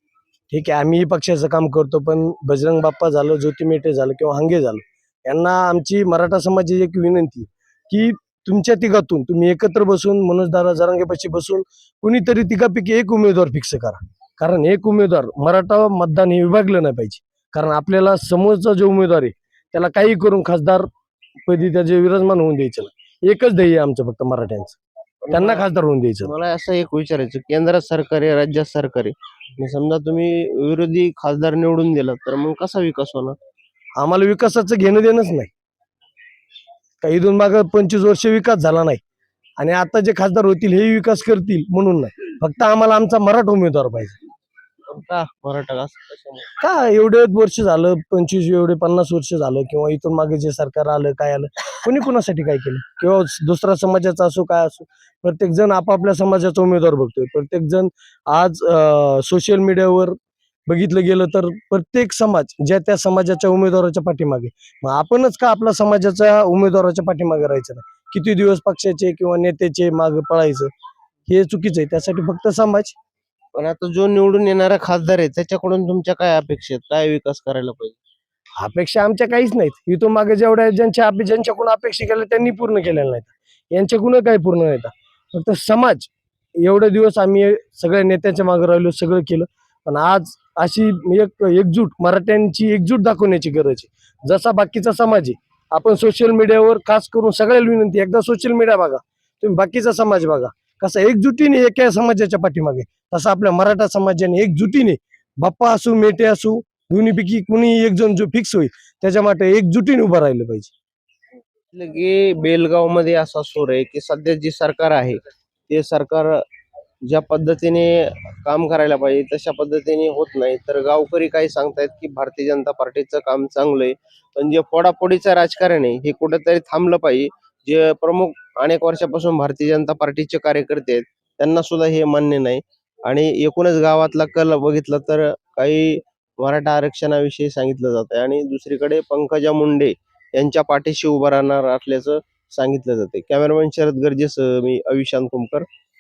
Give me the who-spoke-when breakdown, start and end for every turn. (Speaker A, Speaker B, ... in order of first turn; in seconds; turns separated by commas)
Speaker A: 0.5-20.9, Speaker A: 21.5-24.8, Speaker B: 25.3-25.6, Speaker A: 25.3-26.3, Speaker B: 26.2-33.4, Speaker A: 34.0-35.5, Speaker A: 37.0-39.0, Speaker A: 39.6-44.2, Speaker B: 44.9-46.5, Speaker A: 46.6-60.2, Speaker A: 60.7-70.7, Speaker A: 71.3-73.0, Speaker B: 73.5-78.0, Speaker A: 78.6-86.1, Speaker A: 86.6-110.7, Speaker B: 111.7-116.4, Speaker B: 117.1-145.7